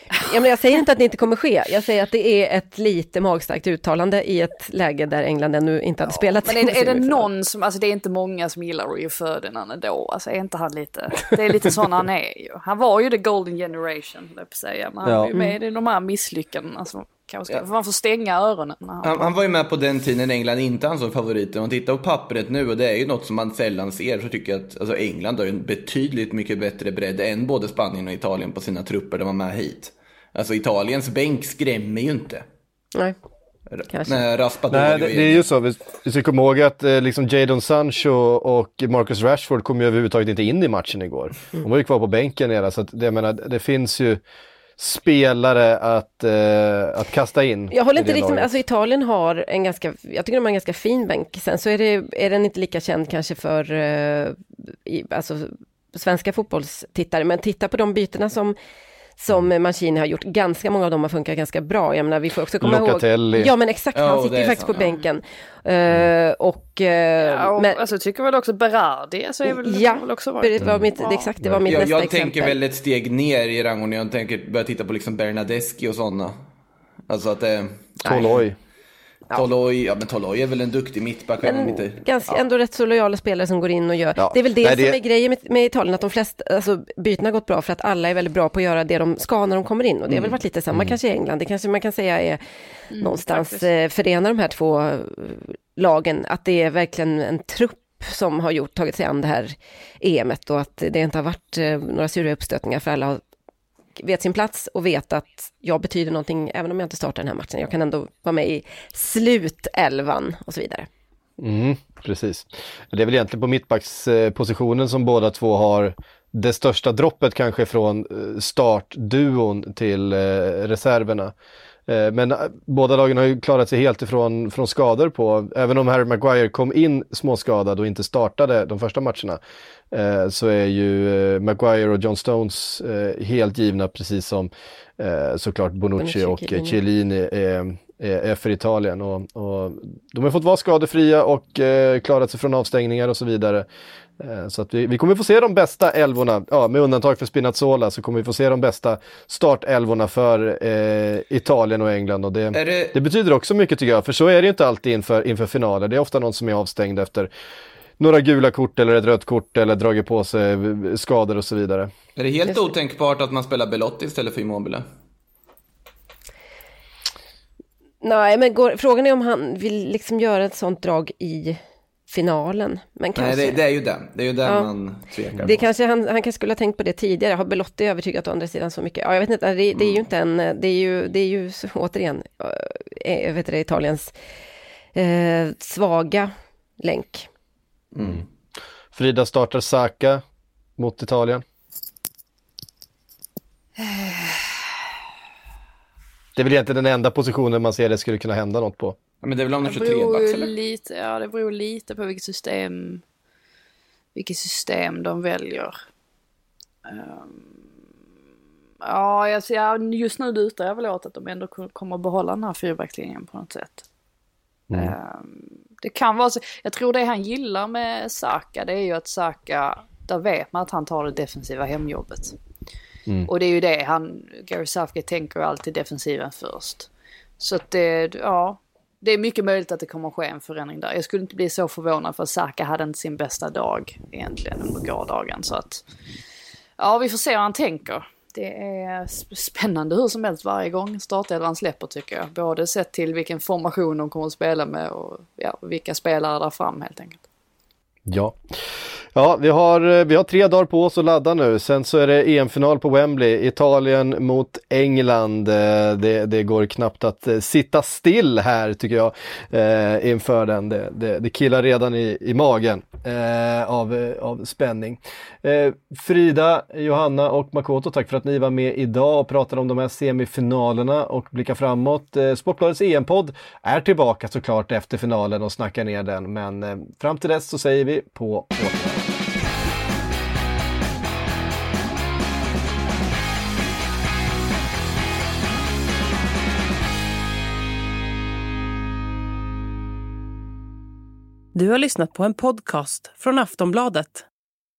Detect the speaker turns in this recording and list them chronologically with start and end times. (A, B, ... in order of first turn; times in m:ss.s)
0:00.2-0:07.3 A
0:06.1-0:19.4 B
0:15.0-0:15.3 C
0:19.0-0:32.4 D
0:33.7-0:35.4 D
0:33.9-0:34.2 A
0:34.7-0:44.2 C
0:44.8-0:48.6 C
0:47.7-0:58.6 A
0:59.2-1:07.8 A
1:02.6-1:03.5 C
1:04.0-1:04.9 D
1:07.2-1:11.3 B
1:09.5-1:12.6 A
1:10.6-1:10.9 C
1:11.4-1:11.7 C
1:11.7-1:16.4 D
1:17.1-1:18.5 D
1:18.0-1:18.6 C
1:19.3-1:22.0 D
1:21.4-1:32.4 A
1:24.2-1:25.0 C
1:32.9-1:33.7 B
1:33.0-1:43.2 A
1:44.0-1:50.9 A
1:51.4-2:01.3 C
2:01.9-2:09.4 C
2:09.9-2:23.7 C
2:16.0-2:16.8 A
2:24.2-2:37.3 C
2:32.5-2:33.0 D
2:38.0-2:41.9 C
2:42.2-2:44.8 D
2:48.0-2:53.6 A
2:53.2-2:55.6 D
2:55.4-3:04.1 A
3:05.0-3:07.3 A
3:07.9-3:08.2 D
3:08.9-3:10.2 C
3:10.8-3:11.4 C
3:13.8-3:14.5 B
3:16.4-3:19.0 C
3:19.2-3:20.5 D
3:19.6-3:23.0 B
3:24.2-3:25.8 B
3:26.9-3:27.5 B
3:28.8-3:33.8 B
3:34.7-3:35.0 C
3:34.7-3:42.4 B
3:43.3-3:46.9 B
3:47.4-3:55.8 B
3:56.8-4:07.2 B
4:08.1-4:39.3 C
4:51.5-4:54.3 E